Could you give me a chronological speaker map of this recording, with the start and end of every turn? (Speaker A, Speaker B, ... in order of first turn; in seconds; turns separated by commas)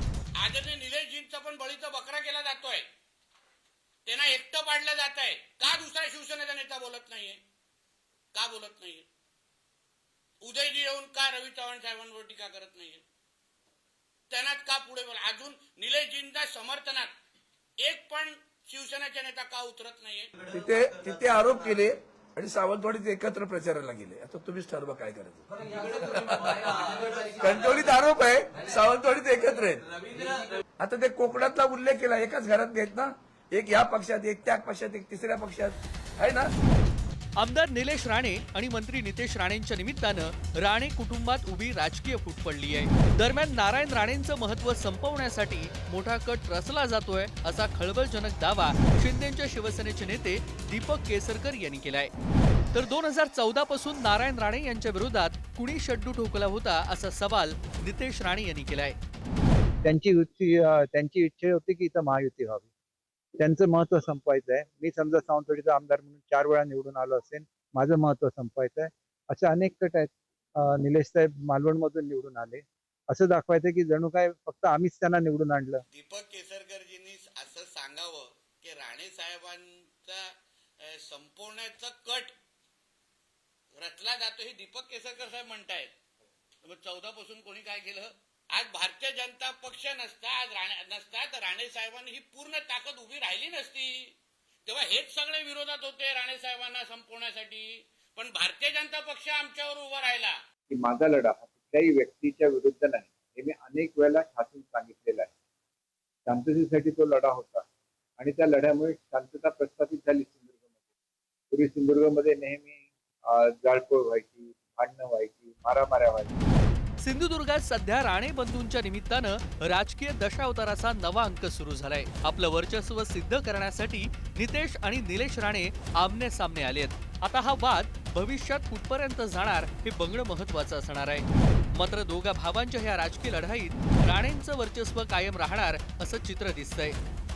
Speaker A: 0.4-2.9, Speaker A: 4.1-7.4, Speaker A: 8.3-9.1, Speaker A: 10.4-13.0, Speaker A: 14.3-17.1, Speaker A: 17.8-20.3, Speaker B: 20.5-36.5, Speaker C: 37.4-52.1, Speaker C: 52.7-59.0, Speaker D: 59.9-62.6, Speaker D: 63.4-75.8, Speaker A: 75.9-80.3, Speaker A: 80.8-82.3, Speaker A: 83.8-85.9, Speaker A: 86.6-94.1, Speaker A: 94.7-100.4, Speaker D: 100.7-105.3, Speaker D: 106.3-107.7, Speaker D: 108.2-110.5, Speaker D: 111.5-116.4, Speaker C: 117.0-137.0